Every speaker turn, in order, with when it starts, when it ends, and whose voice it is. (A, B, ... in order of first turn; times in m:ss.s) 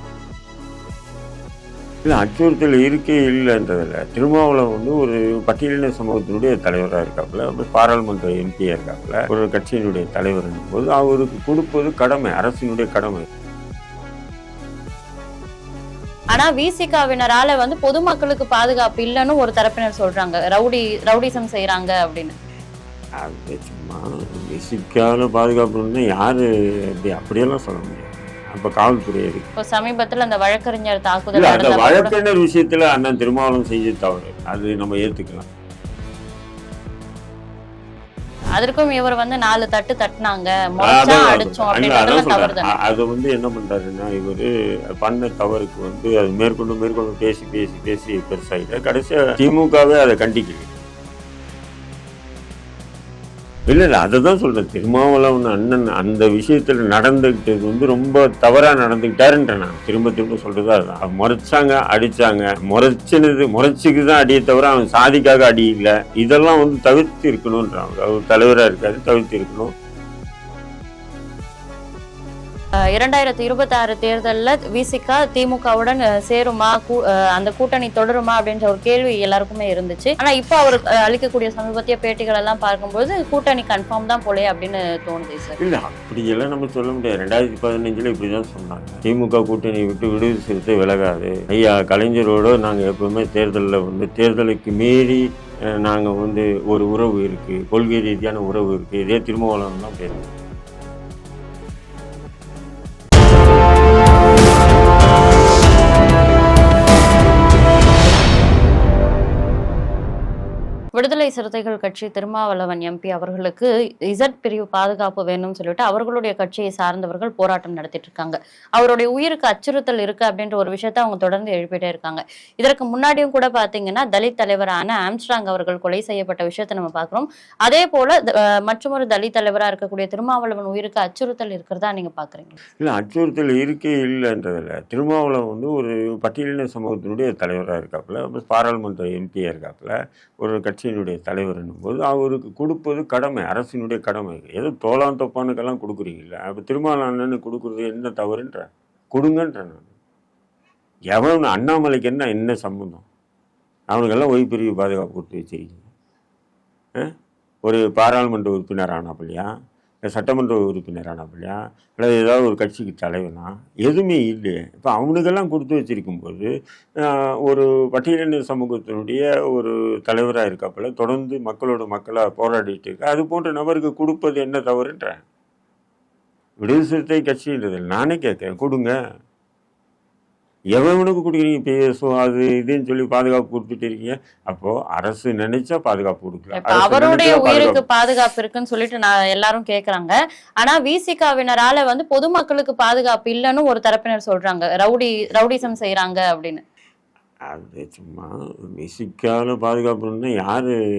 0:02.0-0:13.3 A
0:16.3-0:22.3 B
0:23.2-0:26.5 A
0:27.0-0:29.4 A
0:29.6-0:32.1 B
0:31.3-0:35.5 A
0:38.6-0:42.7 B
0:40.8-0:50.7 A
0:53.7-1:09.7 A
1:13.0-1:25.6 B
1:25.6-1:35.2 A
1:35.8-1:40.3 A
1:51.0-2:08.2 B
2:08.7-2:12.6 B
2:12.8-2:29.9 A
2:31.1-2:33.0 A
2:33.9-2:35.9 A
2:37.7-2:39.5 A
2:40.1-2:46.5 A
2:47.0-2:55.2 A
2:56.6-2:58.9 A
3:00.8-3:07.8 A
3:06.6-3:16.6 B
3:17.5-3:20.8 A